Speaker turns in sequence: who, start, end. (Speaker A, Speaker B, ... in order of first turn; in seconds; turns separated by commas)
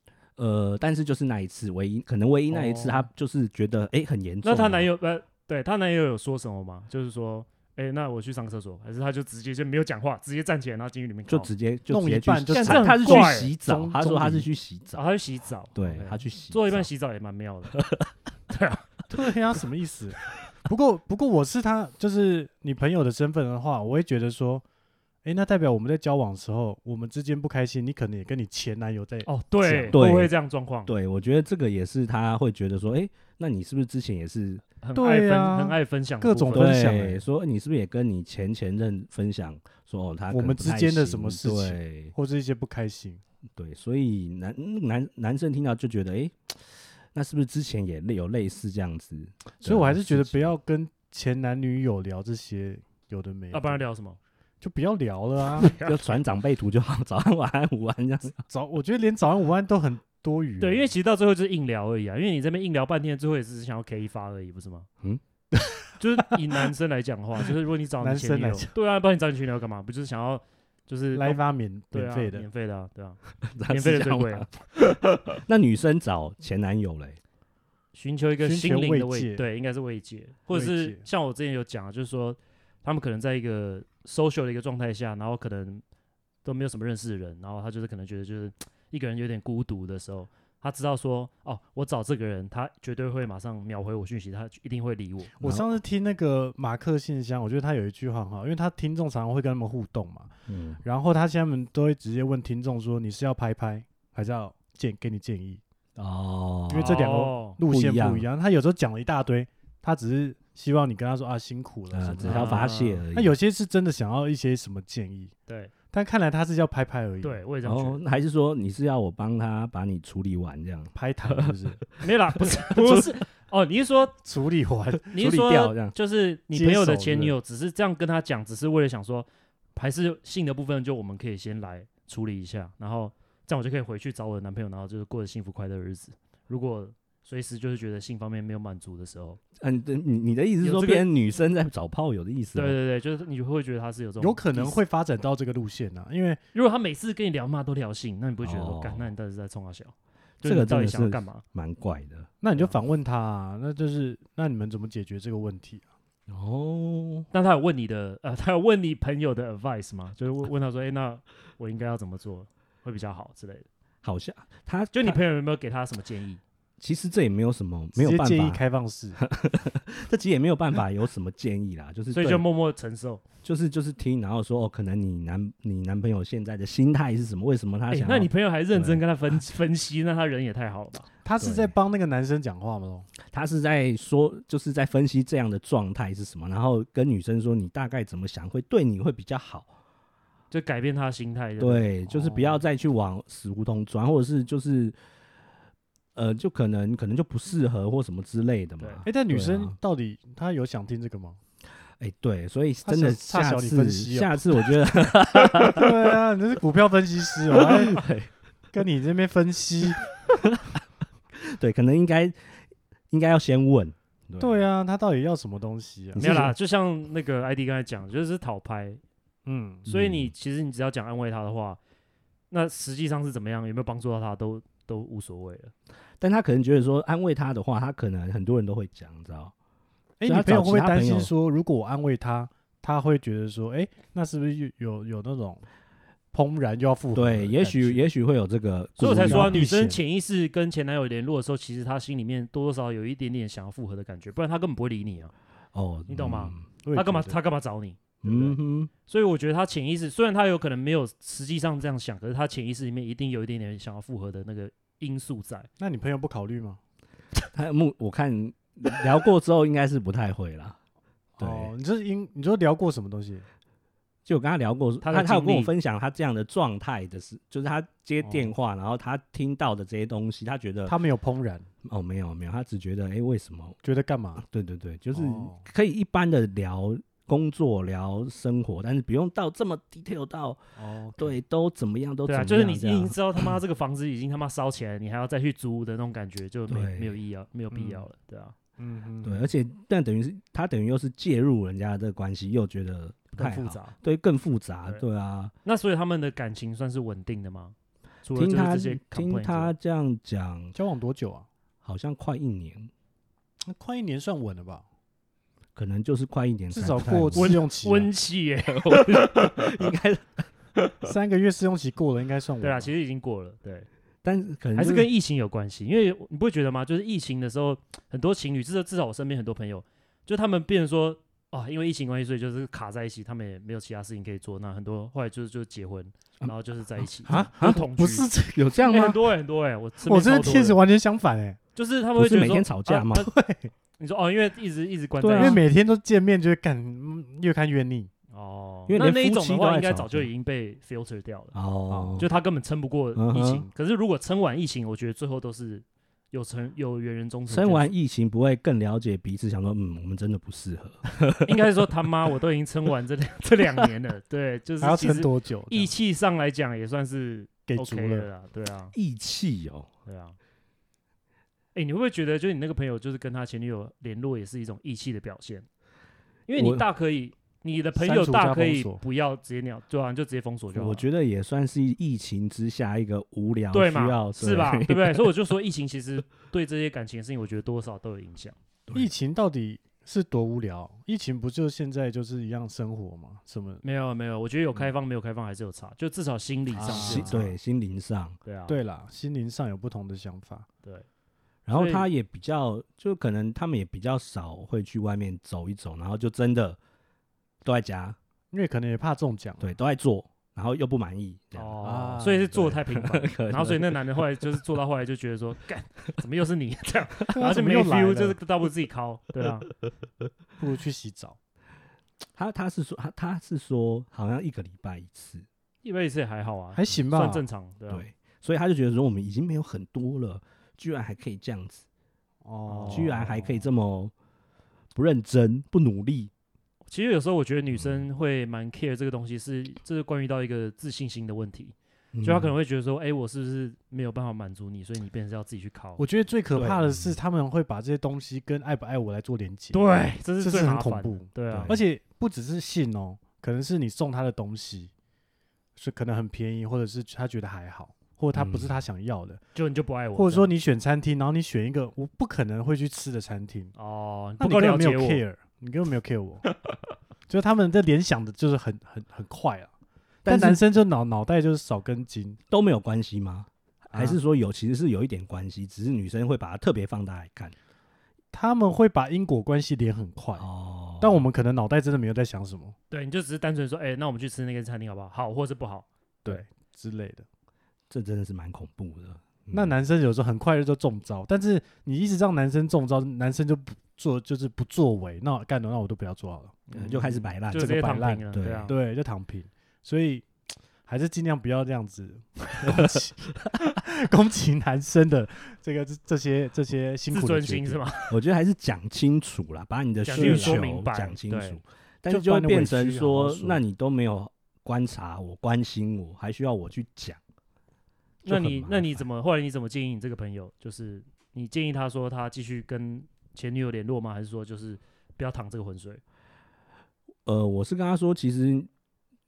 Speaker A: 0.4-4.9, Speaker B: 2.5-3.0, Speaker B: 4.4-11.5, Speaker A: 11.3-15.0, Speaker C: 11.9-14.5, Speaker B: 12.5-13.5, Speaker B: 14.9-17.8, Speaker A: 15.8-16.9, Speaker A: 17.7-18.1, Speaker B: 18.5-19.1, Speaker C: 19.1-24.6, Speaker C: 25.2-30.0, Speaker B: 29.3-30.9, Speaker A: 29.9-30.3, Speaker A: 30.9-34.6, Speaker B: 34.8-36.9, Speaker C: 35.0-37.2, Speaker A: 36.5-42.1, Speaker C: 40.3-43.2, Speaker A: 43.6-50.5, Speaker C: 49.6-53.8, Speaker B: 53.5-54.2, Speaker C: 54.6-55.7, Speaker B: 55.6-56.2, Speaker A: 55.6-58.4, Speaker C: 58.5-60.9, Speaker B: 60.6-64.9, Speaker C: 65.5-66.6, Speaker B: 66.0-71.4, Speaker C: 68.0-68.8, Speaker C: 71.1-72.5, Speaker B: 71.9-74.5, Speaker A: 73.5-77.2, Speaker B: 77.9-85.8, Speaker C: 78.4-79.5, Speaker C: 80.5-81.1, Speaker B: 86.4-95.3, Speaker C: 95.4-100.3, Speaker A: 95.4-95.8, Speaker A: 100.5-100.8, Speaker C: 100.8-105.6, Speaker A: 106.0-107.0, Speaker C: 106.7-115.3, Speaker B: 106.7-107.6, Speaker A: 107.6-108.3, Speaker A: 111.9-113.4, Speaker B: 112.2-113.0, Speaker C: 115.9-117.4, Speaker B: 117.2-118.0, Speaker A: 117.6-121.6, Speaker C: 120.9-121.8, Speaker B: 122.0-124.2, Speaker A: 122.6-123.1, Speaker C: 124.2-125.1, Speaker A: 125.0-125.9, Speaker B: 125.1-139.4, Speaker C: 126.5-127.3, Speaker A: 139.6-142.8, Speaker B: 140.6-141.1, Speaker B: 142.5-144.8, Speaker C: 144.2-146.4, Speaker B: 146.5-151.4, Speaker A: 148.4-149.1, Speaker A: 150.4-152.3, Speaker C: 152.4-155.8, Speaker A: 156.3-157.3, Speaker B: 157.3-163.7, Speaker A: 164.0-165.2, Speaker B: 164.9-166.4, Speaker A: 166.8-168.6, Speaker C: 167.9-169.2, Speaker A: 169.2-172.4, Speaker B: 172.1-173.2, Speaker A: 173.4-179.0, Speaker B: 177.9-181.1, Speaker C: 181.2-183.1, Speaker A: 181.4-181.7, Speaker A: 183.3-189.7, Speaker B: 190.5-191.9, Speaker A: 191.6-195.0, Speaker C: 192.1-192.6, Speaker A: 196.2-199.8, Speaker B: 198.8-199.1, Speaker C: 199.1-201.4, Speaker A: 202.0-206.2, Speaker C: 202.9-204.7, Speaker C: 205.5-208.0, Speaker A: 207.5-208.3, Speaker C: 208.7-210.1, Speaker A: 210.3-210.8, Speaker A: 211.4-212.5, Speaker A: 213.1-214.6, Speaker C: 214.4-216.5, Speaker A: 216.2-216.5, Speaker B: 216.2-219.0, Speaker C: 219.5-219.9, Speaker A: 219.9-220.3, Speaker B: 219.9-221.8, Speaker B: 222.5-225.7, Speaker A: 226.2-229.5, Speaker C: 230.2-235.6, Speaker A: 230.2-231.3, Speaker C: 236.3-238.0, Speaker A: 237.2-239.6, Speaker B: 239.0-245.3, Speaker C: 239.3-240.0, Speaker A: 245.7-246.7, Speaker B: 246.1-255.7, Speaker C: 246.8-247.4, Speaker A: 248.2-248.9, Speaker C: 255.8-256.8, Speaker A: 257.5-260.8, Speaker C: 261.4-263.5, Speaker A: 261.4-261.7, Speaker A: 264.2-270.9, Speaker B: 265.0-265.7, Speaker C: 268.2-268.5, Speaker C: 270.9-271.7, Speaker A: 271.8-273.8, Speaker C: 273.8-274.4, Speaker A: 274.4-280.6, Speaker C: 275.1-275.6, Speaker C: 280.8-281.4, Speaker A: 281.2-283.5, Speaker B: 282.3-288.5, Speaker A: 286.7-287.2, Speaker C: 287.7-288.1, Speaker C: 288.8-289.5, Speaker A: 289.2-295.5, Speaker B: 293.4-293.9, Speaker B: 295.6-299.7, Speaker A: 298.4-300.8, Speaker C: 300.8-301.5, Speaker A: 301.8-302.9, Speaker C: 303.6-304.9, Speaker A: 305.8-307.6, Speaker C: 306.7-308.1, Speaker B: 307.4-309.8, Speaker A: 308.7-310.5, Speaker C: 311.0-312.9, Speaker B: 312.6-313.9, Speaker A: 314.2-315.1, Speaker B: 314.8-328.3, Speaker A: 326.4-327.9, Speaker C: 327.3-329.2, Speaker A: 328.5-329.2, Speaker B: 328.9-330.8, Speaker C: 330.0-331.6, Speaker B: 331.8-333.3, Speaker A: 332.2-333.3, Speaker C: 333.1-333.7, Speaker B: 334.0-335.6, Speaker A: 335.2-335.6, Speaker C: 335.4-338.1, Speaker B: 338.3-341.6, Speaker A: 338.9-340.3, Speaker A: 341.5-342.3, Speaker B: 342.2-347.9, Speaker A: 343.2-343.7, Speaker A: 347.5-351.6, Speaker B: 351.4-358.9, Speaker C: 354.8-355.9, Speaker C: 357.7-358.3, Speaker A: 358.9-359.9, Speaker B: 360.1-360.4, Speaker B: 361.8-365.7, Speaker B: 366.5-371.0, Speaker A: 366.6-366.9, Speaker C: 368.0-369.0, Speaker A: 370.7-375.3, Speaker B: 373.7-378.6, Speaker C: 378.9-383.8, Speaker B: 383.8-387.5, Speaker C: 386.7-387.5, Speaker A: 386.9-388.4, Speaker B: 388.5-388.8, Speaker C: 388.7-390.7, Speaker A: 391.7-396.8, Speaker B: 391.7-392.1, Speaker A: 397.6-398.2, Speaker C: 398.5-399.7, Speaker A: 399.6-401.8, Speaker B: 401.6-409.7, Speaker C: 401.8-402.6, Speaker A: 402.5-404.0, Speaker C: 407.3-408.4, Speaker C: 410.6-411.4, Speaker A: 412.4-415.5, Speaker B: 415.8-418.0, Speaker C: 416.8-417.4, Speaker A: 417.9-421.9, Speaker C: 422.4-423.7, Speaker B: 422.7-423.1, Speaker A: 422.9-424.1, Speaker A: 424.9-426.3, Speaker B: 426.9-436.0, Speaker A: 427.8-428.0, Speaker A: 432.1-432.5, Speaker C: 436.0-439.9, Speaker A: 436.5-437.2, Speaker B: 439.7-441.8, Speaker C: 440.4-444.9, Speaker A: 441.5-441.8, Speaker C: 445.8-449.4, Speaker A: 448.3-448.8, Speaker B: 449.6-450.5, Speaker C: 450.1-453.7, Speaker B: 453.8-455.2, Speaker C: 454.4-456.5, Speaker C: 457.3-459.7, Speaker A: 460.2-460.6, Speaker C: 460.3-462.4, Speaker A: 462.5-467.6, Speaker C: 463.9-464.2, Speaker C: 468.3-470.5, Speaker A: 470.4-471.2, Speaker C: 471.0-472.8, Speaker B: 472.9-476.4, Speaker C: 476.2-477.3, Speaker A: 477.9-479.8, Speaker C: 479.5-490.3, Speaker B: 486.7-488.8, Speaker A: 486.8-487.8, Speaker A: 488.3-488.7, Speaker C: 490.9-497.8, Speaker A: 492.7-492.9, Speaker B: 497.1-498.2, Speaker A: 498.1-507.2, Speaker B: 500.0-501.6, Speaker C: 500.1-500.6, Speaker C: 502.1-503.6, Speaker B: 508.2-516.0, Speaker A: 508.3-509.1, Speaker A: 517.3-518.7